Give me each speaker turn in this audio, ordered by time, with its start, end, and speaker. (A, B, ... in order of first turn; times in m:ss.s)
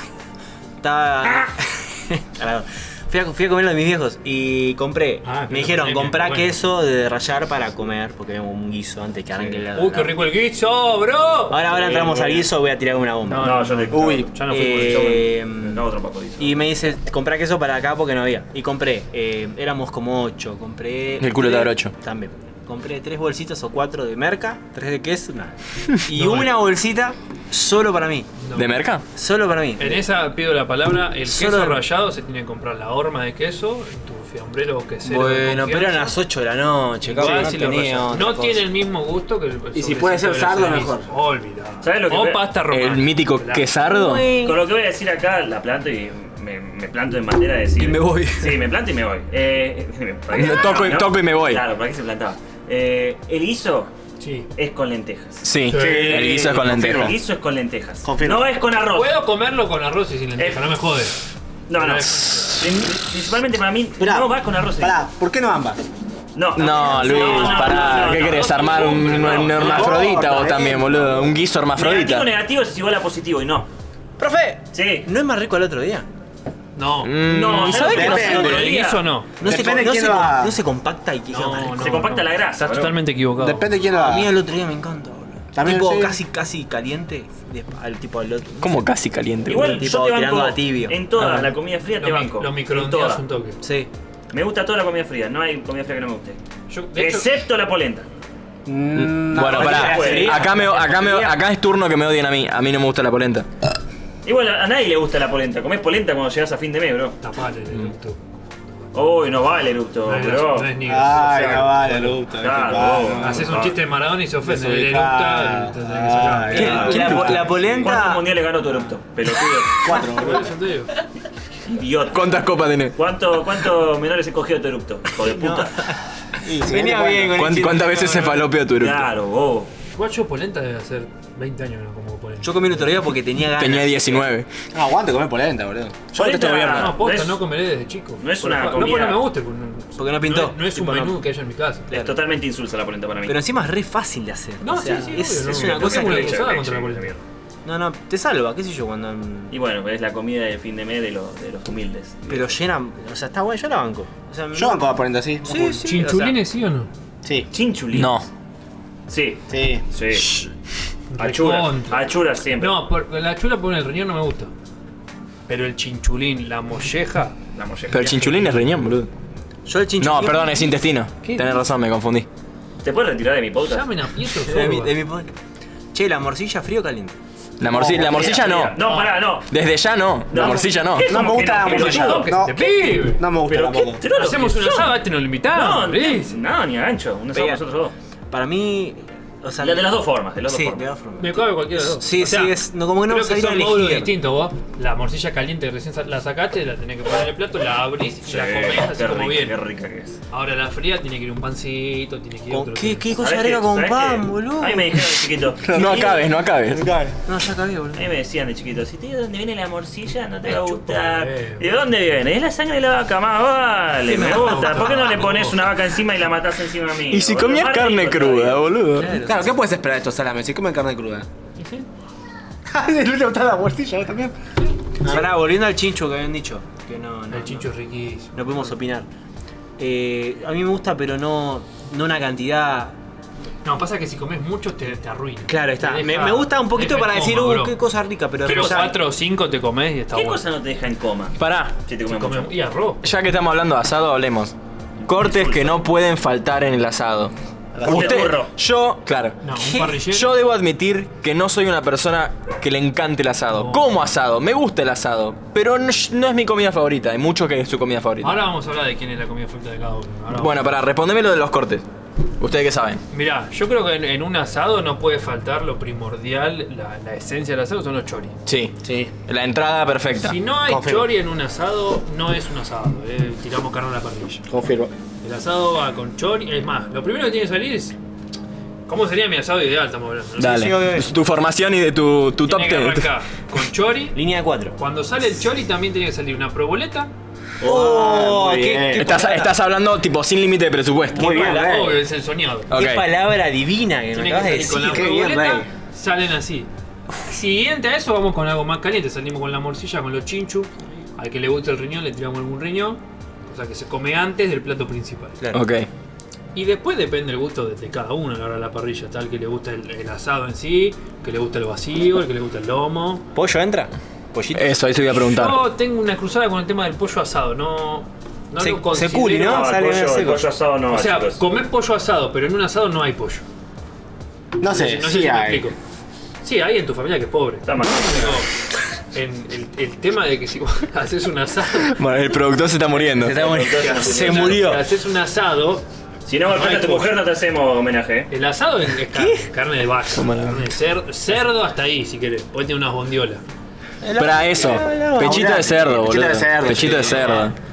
0:00.8-0:10.2 A
0:05.2-0:06.6 B
0:09.7-0:11.6 B
0:11.5-0:13.6 A
0:11.6-0:12.5 C
0:13.2-0:15.2 B
0:13.4-0:16.6 C
0:13.9-0:14.3 D
0:14.4-0:15.8 A
0:16.4-0:28.3 A
0:21.2-0:21.9 E
0:26.1-0:26.6 B
0:28.4-0:28.7 B
0:28.5-0:29.0 E
0:29.1-0:30.0 A
0:29.8-0:36.2 B
0:31.2-0:31.8 A
0:35.0-0:38.7 A
0:37.0-0:43.7 B
0:39.7-0:41.1 D
0:41.8-0:42.5 C
0:42.7-0:44.3 E
0:43.8-0:44.6 A
0:44.4-0:53.9 C
0:47.8-0:48.5 A
0:50.3-0:51.6 E
0:54.2-0:54.5 B
0:54.5-0:55.4 C
0:55.4-0:57.2 E
0:55.7-0:56.2 B
0:55.7-0:57.2 D
0:56.1-0:59.2 C
0:58.0-0:58.5 D
0:58.9-1:01.2 B
1:00.4-1:00.6 C
1:01.7-1:05.0 C
1:01.7-1:02.8 B
1:04.0-1:05.8 D
1:06.3-1:10.0 C
1:06.6-1:12.3 E
1:06.9-1:10.1 B
1:09.6-1:11.3 D
1:11.8-1:13.7 C
1:14.2-1:16.0 A
1:14.7-1:15.0 C
1:16.8-1:19.3 B
1:17.0-1:18.7 E
1:17.2-1:19.0 C
1:17.9-1:18.7 D
1:19.4-1:21.9 A
1:19.4-1:20.6 D
1:21.3-1:23.7 B
1:21.7-1:23.0 C
1:23.4-1:24.3 D
1:23.9-1:28.9 A
1:25.5-1:26.2 D
1:28.6-1:29.8 E
1:29.5-1:33.2 C
1:29.5-1:31.0 A
1:31.2-1:33.6 B
1:33.6-1:33.9 A
1:34.3-1:36.4 C
1:36.7-1:37.3 B
1:37.0-1:38.0 C
1:38.6-1:40.6 D
1:38.9-1:43.4 E
1:39.4-1:40.5 C
1:39.6-1:40.4 A
1:40.6-1:41.2 B
1:44.2-1:47.2 C
1:47.2-1:48.2 B
1:48.9-1:49.1 B
1:48.9-1:50.8 C
1:50.0-1:52.2 B
1:50.8-1:53.6 D
1:52.4-1:53.8 C
1:52.9-1:57.3 B
1:54.4-1:57.8 D
1:56.5-1:58.4 A
1:56.5-2:00.2 C
1:59.8-2:00.5 D
1:59.9-2:00.9 B
2:01.7-2:02.3 C
2:02.1-2:03.0 E
2:02.9-2:05.9 C
2:05.2-2:06.0 A
2:06.4-2:07.5 D
2:06.6-2:08.4 A
2:07.3-2:09.1 E
2:08.7-2:09.7 C
2:09.9-2:13.0 B
2:12.4-2:14.2 A
2:13.5-2:14.5 E
2:14.7-2:17.0 D
2:16.1-2:17.4 C
2:16.6-2:22.0 B
2:18.2-2:19.2 C
2:20.0-2:21.2 A
2:21.9-2:23.4 C
2:23.2-2:26.4 A
2:24.6-2:27.2 B
2:25.3-2:27.2 C
2:27.6-2:29.5 A
2:29.5-2:32.6 C
2:32.3-2:34.8 A
2:34.5-2:35.8 D
2:35.4-2:36.4 A
2:35.8-2:36.9 B
2:37.5-2:38.2 C
2:37.9-2:38.2 E
2:39.1-2:40.4 C
2:39.5-2:39.8 D
2:40.1-2:40.5 B
2:41.1-2:42.0 B
2:41.2-2:42.8 C
2:42.6-2:44.5 B
2:45.5-2:47.4 B
2:47.5-2:48.2 C
2:47.9-2:49.1 E
2:48.0-2:48.7 B
2:49.6-2:50.8 A
2:50.0-2:52.3 E
2:51.2-2:51.6 B
2:52.8-2:53.9 C
2:53.6-2:54.9 B
2:54.4-2:55.3 A
2:55.9-2:57.2 A
2:57.6-2:58.8 E
2:57.6-2:58.5 D
2:58.0-2:59.5 C
2:58.8-2:59.1 B
2:59.5-3:01.1 E
3:00.3-3:02.3 C
3:00.4-3:04.0 D
3:01.6-3:03.2 B
3:03.5-3:04.9 C
3:04.1-3:06.3 B
3:05.5-3:07.9 C
3:07.3-3:07.6 A
3:08.3-3:14.1 A
3:09.6-3:10.8 C
3:11.2-3:19.6 B
3:18.3-3:20.2 C
3:20.3-3:23.1 B
3:22.5-3:25.0 A
3:23.2-3:26.0 C
3:25.6-3:27.2 D
3:25.7-3:26.8 E
3:27.2-3:28.0 A
3:28.0-3:38.7 C
3:30.5-3:31.9 B
3:34.0-3:35.2 A
3:34.2-3:35.6 B
3:37.1-3:39.2 E
3:38.9-3:39.5 A
3:39.2-3:41.3 D
3:41.6-3:41.8 B
3:42.7-3:44.3 D
3:45.0-3:45.3 D
3:45.0-3:47.7 A
3:47.3-3:48.7 B
3:48.3-3:49.1 A
3:49.8-3:52.9 A
3:53.6-3:57.8 B
3:55.5-3:59.0 A
3:58.4-4:00.4 B
4:00.1-4:01.4 C
4:01.4-4:01.7 E
4:01.9-4:02.5 C
4:02.0-4:03.0 B
4:03.0-4:04.5 E
4:05.0-4:05.8 C
4:05.0-4:18.4 E
4:07.8-4:08.3 D
4:07.8-4:08.5 C
4:09.4-4:10.3 B
4:09.6-4:10.0 A
4:13.5-4:14.0 B
4:18.2-4:20.8 B
4:20.3-4:21.8 E
4:22.4-4:23.0 E
4:23.1-4:28.3 B
4:28.4-4:30.4 E
4:28.8-4:29.1 D
4:30.2-4:34.4 B
4:30.7-4:31.1 D
4:34.5-4:34.9 D
4:35.2-4:38.0 B
4:38.9-4:40.7 B
4:40.4-4:43.1 E
4:40.4-4:41.1 A
4:42.4-4:44.2 B
4:44.1-4:44.8 A
4:44.8-4:47.1 B
4:47.6-4:49.2 D
4:47.6-4:49.5 A
4:48.9-4:51.4 E
4:51.1-4:52.0 D
4:51.1-4:52.7 B
4:51.2-4:51.8 A
4:52.7-4:53.1 E
4:52.7-4:55.5 A
4:54.1-5:05.4 B
4:54.8-4:55.7 D
5:05.5-5:05.9 E
5:06.5-5:13.2 B
5:13.3-5:14.8 A
5:14.5-5:15.6 E
5:15.1-5:19.7 B
5:18.6-5:20.5 A
5:19.4-5:21.4 C
5:20.9-5:23.4 B
5:24.6-5:25.7 D
5:24.6-5:25.8 B
5:26.4-5:28.5 B
5:27.6-5:28.4 C
5:29.1-5:32.0 B
5:31.8-5:33.5 E
5:33.1-5:34.9 A
5:33.2-5:34.8 C
5:33.8-5:35.8 B
5:36.2-5:38.3 C
5:36.4-5:37.2 B
5:38.3-5:43.4 B
5:39.1-5:39.5 A
5:40.1-5:40.6 E
5:44.0-5:45.6 A
5:44.2-5:47.5 E
5:44.6-5:47.4 D
5:47.0-5:47.5 B